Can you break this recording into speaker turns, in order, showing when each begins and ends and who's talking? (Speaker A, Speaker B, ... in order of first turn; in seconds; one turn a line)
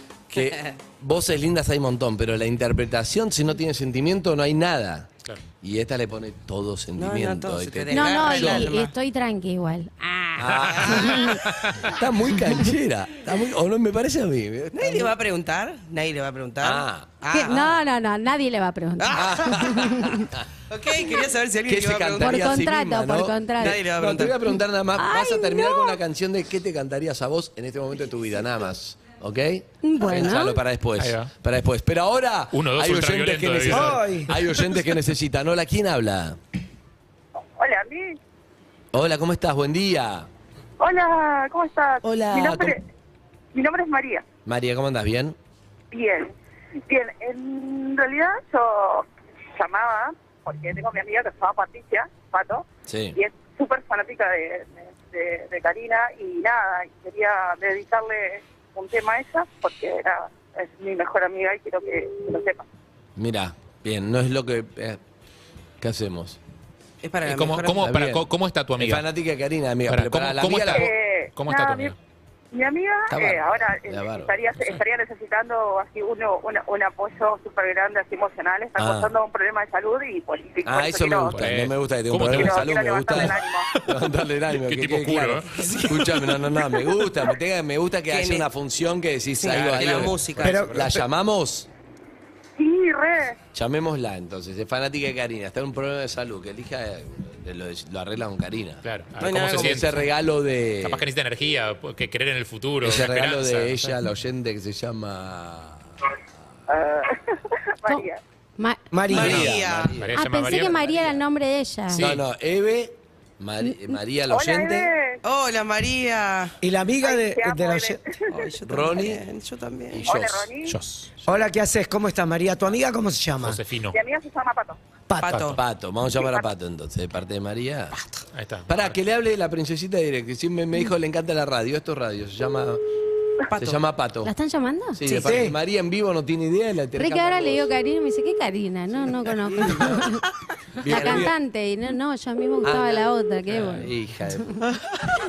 Speaker A: 0.3-5.1
Speaker B: 0.4-0.7
Speaker A: 5.6-8.7
Speaker B: 7.0-8.9
Speaker C: 7.9-11.3
Speaker A: 10.4-15.1
Speaker B: 10.8-11.1
Speaker D: 11.5-11.8
Speaker B: 14.8-17.7
Speaker A: 16.6-17.2
Speaker C: 17.3-20.3
Speaker B: 19.0-19.6
Speaker A: 19.1-20.5
Speaker B: 20.7-22.5
Speaker A: 21.6-36.4
Speaker C: 22.2-23.8
Speaker B: 23.6-24.5
Speaker C: 24.9-26.0
Speaker C: 29.8-30.6
Speaker D: 31.0-31.3
Speaker D: 32.5-34.0
Speaker E: 33.7-34.4
Speaker F: 37.6-38.2
Speaker A: 38.9-40.3
Speaker F: 40.8-42.8
Speaker A: 42.0-42.8
Speaker F: 43.5-44.2
Speaker A: 44.5-45.4
Speaker F: 45.9-46.3
Speaker F: 46.9-62.6
Speaker A: 52.9-53.2
Speaker A: 63.2-65.0
Speaker A: 65.8-66.4
Speaker B: 67.0-67.9
Speaker D: 67.2-69.0
Speaker A: 67.8-70.9
Speaker D: 69.9-72.0
Speaker F: 70.7-71.9
Speaker F: 72.5-81.4
Speaker A: 73.1-74.3
Speaker A: 78.8-79.1
Speaker A: 80.6-91.7
Speaker D: 81.3-83.4
Speaker F: 82.3-83.7
Speaker D: 84.5-85.6
Speaker B: 85.5-86.2
Speaker B: 88.1-88.5
Speaker B: 89.4-90.7
Speaker D: 89.5-90.8
Speaker E: 90.4-90.9
Speaker F: 92.6-93.4
Speaker A: 93.5-101.0
Speaker D: 98.8-100.1
Speaker B: 99.2-99.9
Speaker D: 100.8-104.0
Speaker A: 102.8-105.8
Speaker F: 106.7-108.2
Speaker C: 107.9-108.8
Speaker E: 108.9-109.5
Speaker B: 109.1-110.0
Speaker A: 109.1-110.1
Speaker D: 109.2-111.1
Speaker C: 110.1-112.0
Speaker D: 111.9-112.2
Speaker A: 112.0-114.9
Speaker C: 113.6-114.0
Speaker F: 114.3-115.2
Speaker B: 115.2-116.6
Speaker E: 116.6-118.0
Speaker F: 117.0-118.3
Speaker B: 118.3-120.0
Speaker A: 118.7-119.2
Speaker A: 119.9-120.5
Speaker F: 120.0-120.8
Speaker D: 120.7-121.1
Speaker E: 121.2-123.6
Speaker D: 123.4-124.0
Speaker F: 123.9-124.8
Speaker E: 125.1-125.4
Speaker B: 125.2-125.6
Speaker D: 125.3-125.5
Speaker A: 125.5-128.0
Speaker F: 126.2-126.5
Speaker D: 128.3-128.9
Speaker A: 128.7-132.8
Speaker B: 133.4-133.8
Speaker A: 133.6-134.3
Speaker C: 134.2-135.0
Speaker A: 134.9-137.7
Speaker B: 135.1-135.3
Speaker E: 135.1-135.6
Speaker C: 137.0-140.2
Speaker A: 140.8-141.3
Speaker C: 140.8-143.9
Speaker B: 140.9-141.3
Speaker A: 142.6-144.6